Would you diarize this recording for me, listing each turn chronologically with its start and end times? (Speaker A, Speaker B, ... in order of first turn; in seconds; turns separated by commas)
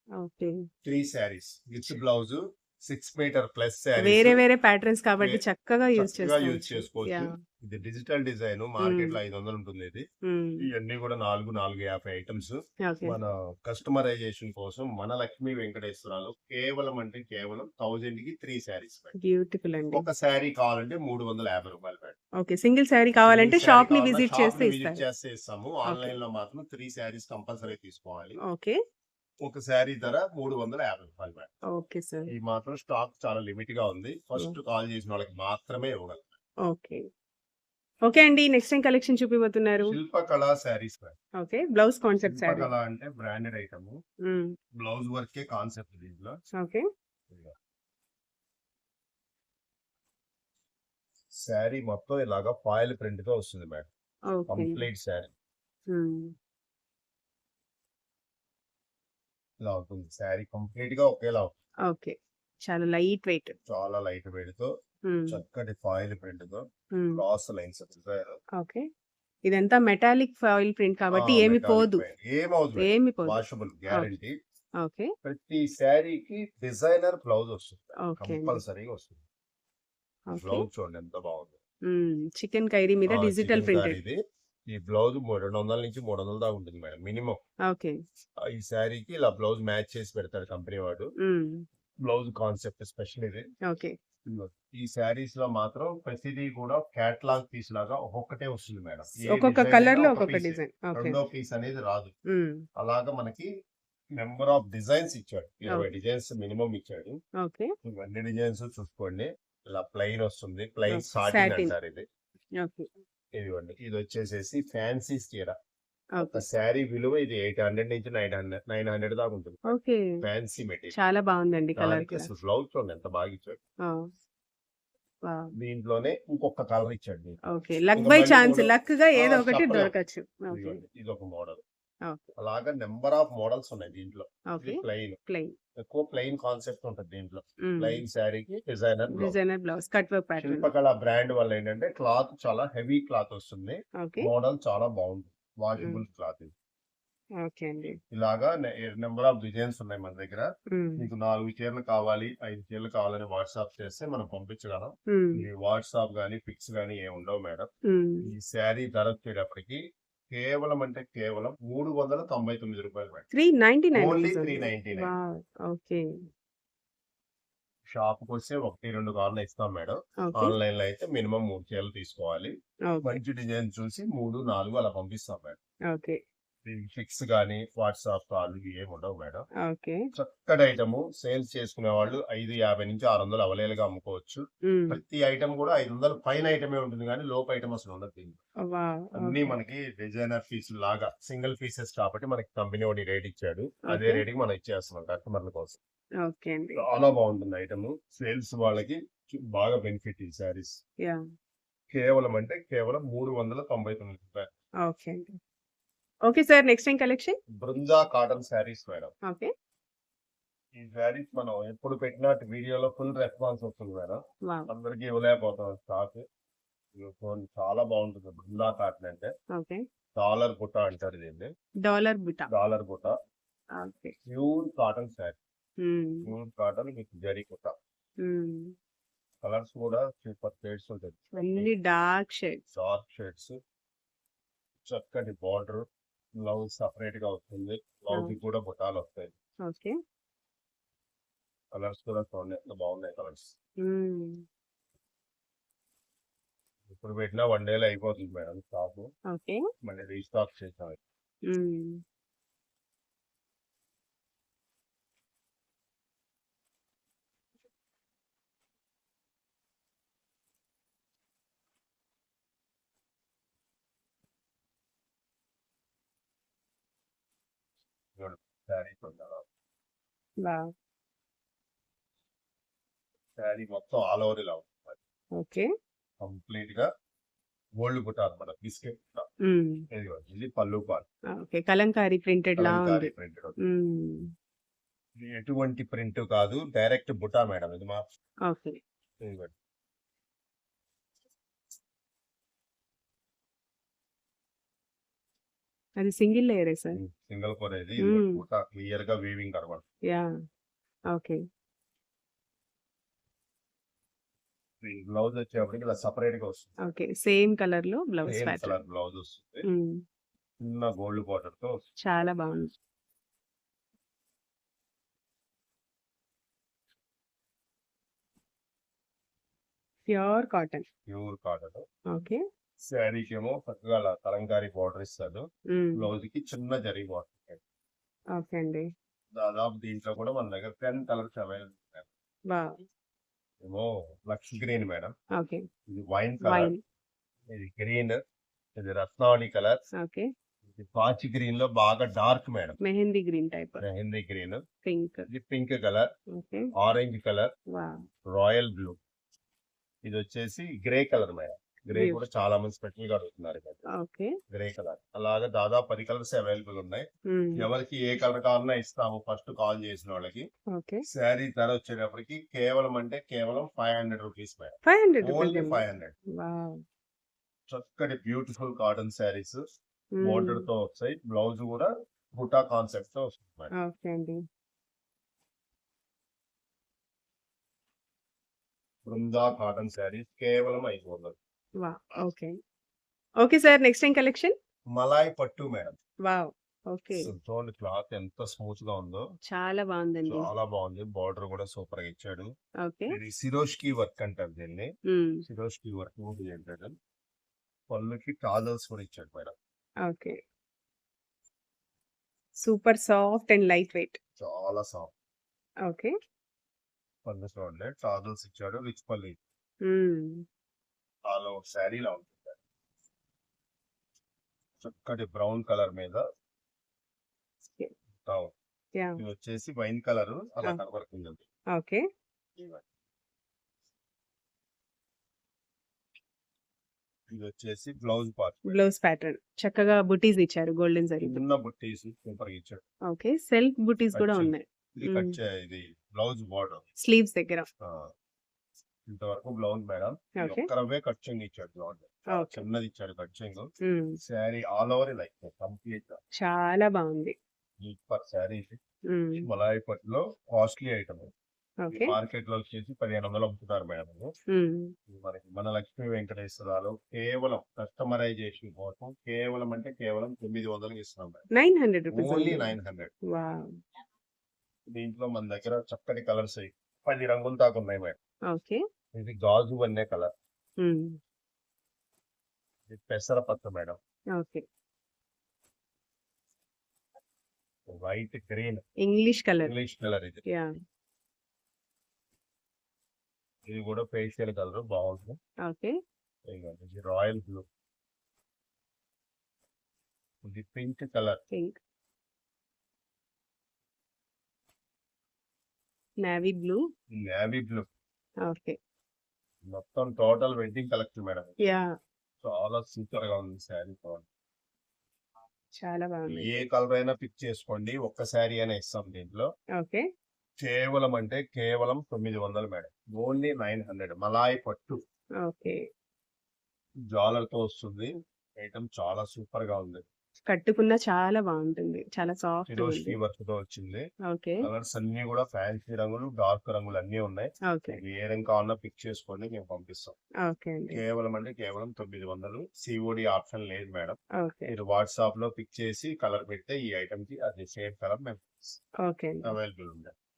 Speaker A: 0.2-0.6, Speaker B: 0.8-4.4, Speaker A: 4.0-7.3, Speaker B: 6.0-10.1, Speaker A: 8.8-9.2, Speaker A: 10.3-10.6, Speaker B: 10.6-19.1, Speaker A: 12.8-13.2, Speaker A: 19.1-20.0, Speaker B: 19.9-22.2, Speaker A: 22.4-25.0, Speaker B: 23.3-28.4, Speaker A: 25.9-26.1, Speaker A: 28.4-28.8, Speaker B: 29.4-31.5, Speaker A: 31.7-32.3, Speaker B: 32.3-36.4, Speaker A: 36.7-37.0, Speaker A: 38.0-40.0, Speaker B: 39.9-41.2, Speaker A: 41.4-42.7, Speaker B: 42.3-44.0, Speaker A: 44.3-44.5, Speaker B: 44.8-46.4, Speaker A: 46.6-46.9, Speaker B: 51.3-53.9, Speaker A: 54.3-54.9, Speaker B: 54.5-55.3, Speaker A: 55.9-56.3, Speaker B: 59.6-61.5, Speaker A: 61.9-62.1, Speaker A: 62.7-63.5, Speaker B: 63.7-64.7, Speaker A: 65.1-65.4, Speaker B: 65.3-68.4, Speaker A: 67.0-67.2, Speaker A: 68.6-68.9, Speaker A: 69.5-72.0, Speaker B: 71.1-74.3, Speaker A: 72.8-73.4, Speaker A: 74.8-75.1, Speaker B: 75.2-79.2, Speaker A: 78.0-78.6, Speaker A: 80.3-80.7, Speaker B: 80.4-81.6, Speaker A: 81.9-84.0, Speaker B: 83.1-87.4, Speaker A: 87.7-88.0, Speaker B: 88.5-91.1, Speaker A: 91.2-91.7, Speaker B: 92.0-93.5, Speaker A: 93.7-94.0, Speaker B: 94.3-102.1, Speaker A: 99.3-101.2, Speaker A: 102.3-102.6, Speaker B: 102.8-103.5, Speaker B: 104.2-107.2, Speaker A: 107.4-107.7, Speaker B: 107.8-112.0, Speaker A: 110.9-111.7, Speaker A: 112.6-112.9, Speaker B: 113.3-115.6, Speaker A: 116.2-116.4, Speaker B: 116.2-119.6, Speaker A: 119.7-120.2, Speaker B: 120.2-121.0, Speaker A: 120.9-122.3, Speaker B: 121.8-123.6, Speaker A: 125.2-125.5, Speaker B: 125.5-127.4, Speaker A: 127.5-130.8, Speaker B: 128.0-129.9, Speaker B: 130.5-131.6, Speaker B: 132.4-135.2, Speaker A: 134.5-135.5, Speaker B: 135.8-139.4, Speaker A: 137.7-138.0, Speaker A: 139.1-140.7, Speaker B: 140.4-146.5, Speaker A: 144.0-144.3, Speaker A: 147.4-148.0, Speaker B: 148.1-150.5, Speaker A: 150.7-151.0, Speaker B: 151.0-157.7, Speaker A: 155.1-155.4, Speaker A: 157.9-158.3, Speaker B: 158.2-163.3, Speaker A: 163.3-166.1, Speaker B: 163.9-165.1, Speaker B: 167.9-172.5, Speaker A: 170.2-170.6, Speaker A: 172.9-173.2, Speaker B: 173.0-175.6, Speaker A: 175.9-176.2, Speaker B: 176.7-179.5, Speaker A: 179.7-180.0, Speaker B: 180.2-188.4, Speaker A: 184.7-185.0, Speaker A: 188.7-189.5, Speaker B: 189.2-195.8, Speaker A: 193.9-194.2, Speaker A: 196.2-197.0, Speaker B: 196.8-200.8, Speaker B: 201.9-204.5, Speaker A: 204.8-205.4, Speaker A: 206.3-207.4, Speaker B: 207.6-209.1, Speaker B: 210.8-216.2, Speaker B: 216.9-219.3, Speaker A: 219.5-219.8, Speaker B: 220.2-221.5, Speaker A: 221.8-222.5, Speaker B: 222.5-223.1, Speaker A: 223.8-224.2, Speaker B: 224.3-225.4, Speaker A: 225.8-226.3, Speaker B: 226.3-227.8, Speaker A: 228.2-228.8, Speaker B: 229.4-231.7, Speaker A: 231.4-232.6, Speaker B: 232.7-233.6, Speaker B: 234.8-235.8, Speaker B: 236.4-239.3, Speaker A: 239.7-239.9, Speaker B: 241.7-243.5, Speaker A: 243.8-244.4, Speaker B: 246.9-249.1, Speaker A: 249.3-249.6, Speaker B: 249.8-251.0, Speaker A: 251.4-252.0, Speaker B: 268.2-269.4, Speaker A: 270.4-270.7, Speaker B: 273.4-275.0, Speaker A: 275.4-275.7, Speaker B: 276.2-276.9, Speaker B: 277.8-279.3, Speaker A: 279.5-279.8, Speaker B: 279.9-281.1, Speaker A: 281.4-283.1, Speaker B: 282.6-283.6, Speaker A: 283.6-284.3, Speaker B: 285.2-288.0, Speaker A: 288.5-288.8, Speaker B: 289.2-289.5, Speaker A: 296.0-297.0, Speaker B: 296.9-299.8, Speaker A: 298.0-298.4, Speaker A: 301.1-301.4, Speaker B: 304.8-306.8, Speaker A: 306.9-308.8, Speaker B: 308.3-309.7, Speaker A: 309.7-310.0, Speaker B: 310.6-311.7, Speaker A: 312.0-312.7, Speaker A: 320.1-320.9, Speaker B: 321.1-321.9, Speaker A: 322.1-322.4, Speaker B: 322.9-325.4, Speaker A: 325.7-326.1, Speaker B: 326.0-327.6, Speaker A: 328.4-328.9, Speaker B: 329.4-332.1, Speaker A: 332.5-332.8, Speaker B: 333.6-335.1, Speaker A: 335.4-335.7, Speaker B: 335.9-336.7, Speaker A: 336.4-336.8, Speaker B: 337.5-338.2, Speaker B: 338.8-339.8, Speaker A: 340.0-340.3, Speaker B: 340.8-342.8, Speaker A: 342.8-343.8, Speaker B: 343.8-344.6, Speaker A: 344.9-345.3, Speaker B: 345.3-346.1, Speaker A: 346.3-346.7, Speaker B: 346.8-347.5, Speaker A: 347.7-348.0, Speaker B: 348.3-349.0, Speaker B: 350.1-353.8, Speaker A: 351.9-352.2, Speaker A: 353.9-354.3, Speaker B: 354.5-357.1, Speaker A: 357.3-357.6, Speaker B: 357.6-360.5, Speaker A: 360.7-361.0, Speaker B: 361.1-366.1, Speaker A: 364.9-365.8, Speaker A: 366.4-366.8, Speaker B: 367.7-369.6, Speaker A: 370.1-370.6, Speaker B: 370.2-373.7, Speaker A: 373.7-374.4, Speaker B: 379.1-381.4, Speaker A: 381.8-382.5, Speaker A: 383.4-384.6, Speaker B: 384.9-386.0, Speaker A: 386.3-387.3, Speaker B: 387.2-389.2, Speaker A: 389.5-390.5, Speaker B: 390.3-392.5, Speaker A: 392.8-393.1, Speaker B: 393.1-394.9, Speaker A: 395.1-395.4, Speaker B: 395.5-396.9, Speaker B: 397.9-399.5, Speaker A: 400.1-400.4, Speaker A: 402.6-404.2, Speaker B: 404.4-405.1, Speaker A: 405.9-406.1, Speaker B: 407.2-409.4, Speaker A: 409.8-410.4, Speaker B: 411.3-412.6, Speaker B: 414.8-416.2, Speaker B: 418.2-418.5, Speaker B: 419.2-421.4, Speaker A: 421.8-422.0, Speaker B: 422.6-422.8, Speaker B: 427.3-428.8, Speaker A: 428.7-431.4, Speaker B: 431.2-432.8, Speaker A: 433.1-435.4, Speaker B: 434.1-436.8, Speaker A: 437.0-437.7, Speaker B: 437.8-438.1, Speaker B: 439.1-443.7, Speaker A: 440.4-440.7, Speaker A: 442.3-442.6, Speaker A: 443.8-444.2, Speaker B: 444.2-446.2, Speaker A: 446.4-447.4, Speaker B: 447.8-448.8, Speaker A: 449.1-449.5, Speaker B: 449.4-451.3, Speaker A: 451.8-452.1, Speaker B: 451.9-454.3, Speaker A: 454.5-454.9, Speaker B: 455.1-461.4, Speaker A: 461.6-462.7, Speaker B: 462.1-463.1, Speaker A: 463.3-463.8, Speaker B: 464.9-468.2, Speaker A: 468.5-468.8, Speaker B: 469.2-470.3, Speaker A: 470.8-471.2, Speaker B: 472.9-474.0, Speaker A: 474.4-474.6, Speaker B: 477.9-478.8, Speaker A: 479.0-479.7, Speaker B: 479.6-480.4, Speaker B: 483.7-485.4, Speaker A: 485.6-486.0, Speaker B: 486.5-487.7, Speaker B: 490.4-491.4, Speaker A: 491.5-491.8, Speaker A: 496.2-496.8, Speaker B: 497.1-497.9, Speaker A: 498.4-498.8, Speaker B: 499.7-501.6, Speaker A: 501.6-501.9, Speaker B: 502.4-504.2, Speaker A: 505.8-506.6, Speaker B: 506.3-509.5, Speaker A: 509.8-510.1, Speaker B: 510.6-515.0, Speaker A: 515.4-515.8, Speaker B: 517.1-520.0, Speaker A: 520.5-523.2, Speaker B: 522.7-524.1, Speaker A: 524.3-524.6, Speaker B: 524.6-530.2, Speaker A: 527.7-528.0, Speaker A: 530.5-531.0, Speaker B: 530.9-538.8, Speaker A: 534.4-534.7, Speaker A: 539.0-539.5, Speaker B: 539.4-540.1